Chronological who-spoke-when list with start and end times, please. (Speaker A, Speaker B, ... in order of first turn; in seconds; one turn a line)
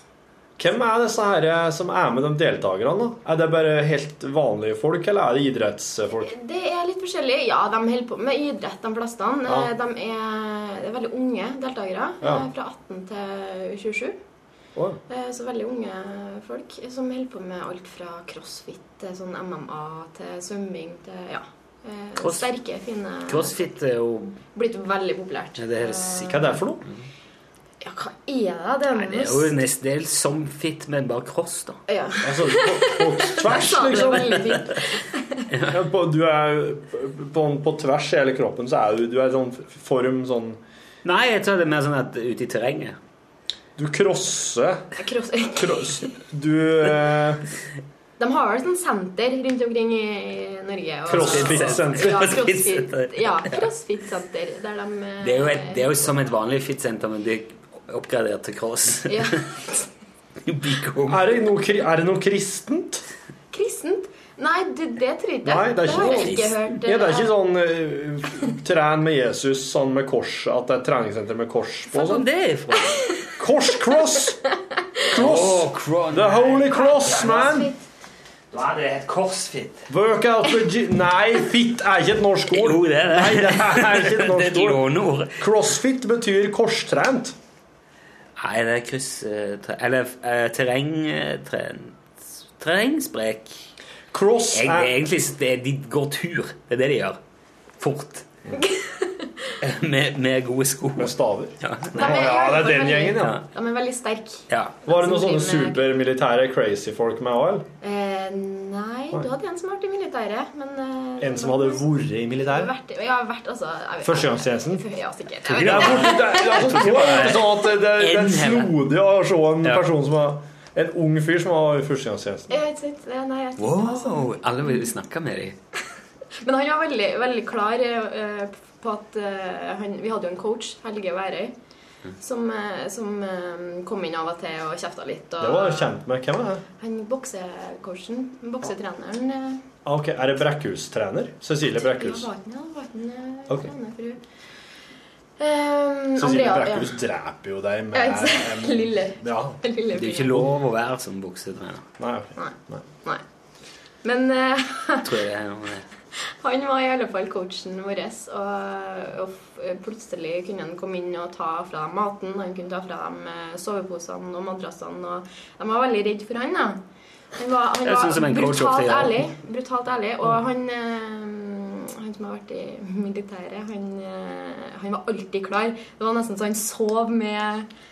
Speaker A: 0.6-6.3
Speaker B: 6.2-14.2
Speaker B: 15.1-23.8
Speaker C: 22.2-22.5
Speaker C: 23.3-24.4
Speaker B: 24.5-26.6
Speaker C: 25.6-26.9
Speaker A: 26.2-26.9
Speaker B: 27.8-29.6
Speaker C: 28.9-31.8
Speaker B: 31.9-35.5
Speaker A: 32.2-34.6
Speaker A: 35.7-40.6
Speaker C: 41.0-43.0
Speaker A: 43.8-44.9
Speaker B: 45.0-46.1
Speaker A: 45.5-47.4
Speaker B: 48.2-55.9
Speaker A: 51.1-52.3
Speaker C: 51.1-53.7
Speaker C: 55.2-59.4
Speaker B: 59.1-59.9
Speaker C: 60.5-61.3
Speaker A: 61.1-63.1
Speaker B: 63.5-67.4
Speaker A: 65.4-72.3
Speaker C: 65.8-66.6
Speaker C: 71.9-73.0
Speaker B: 72.8-75.2
Speaker A: 73.4-74.4
Speaker A: 75.1-77.7
Speaker C: 75.1-77.6
Speaker B: 76.7-77.8
Speaker C: 78.5-79.9
Speaker A: 79.9-84.8
Speaker C: 82.5-85.5
Speaker A: 85.4-87.3
Speaker C: 88.4-93.7
Speaker A: 94.1-95.0
Speaker C: 94.5-97.2
Speaker C: 97.8-98.3
Speaker B: 98.5-99.5
Speaker C: 99.6-102.2
Speaker A: 101.0-103.4
Speaker B: 102.0-105.9
Speaker C: 103.2-103.4
Speaker C: 104.5-104.8
Speaker A: 104.9-107.7
Speaker B: 107.8-117.5
Speaker A: 111.2-112.7
Speaker A: 114.0-114.8
Speaker C: 115.5-118.7
Speaker A: 115.5-122.6
Speaker B: 122.5-124.9
Speaker C: 123.6-125.6
Speaker B: 126.4-131.5
Speaker B: 132.2-136.0
Speaker A: 135.4-136.6
Speaker B: 136.8-139.7
Speaker A: 139.8-142.3
Speaker B: 141.7-144.2
Speaker B: 145.4-147.1
Speaker A: 146.2-149.6
Speaker B: 147.9-150.5
Speaker C: 149.9-151.8
Speaker A: 150.3-150.5
Speaker A: 152.0-152.8
Speaker B: 152.4-153.2
Speaker B: 154.0-155.2
Speaker C: 155.0-155.9
Speaker B: 156.1-166.8
Speaker B: 167.3-177.7
Speaker C: 167.8-169.3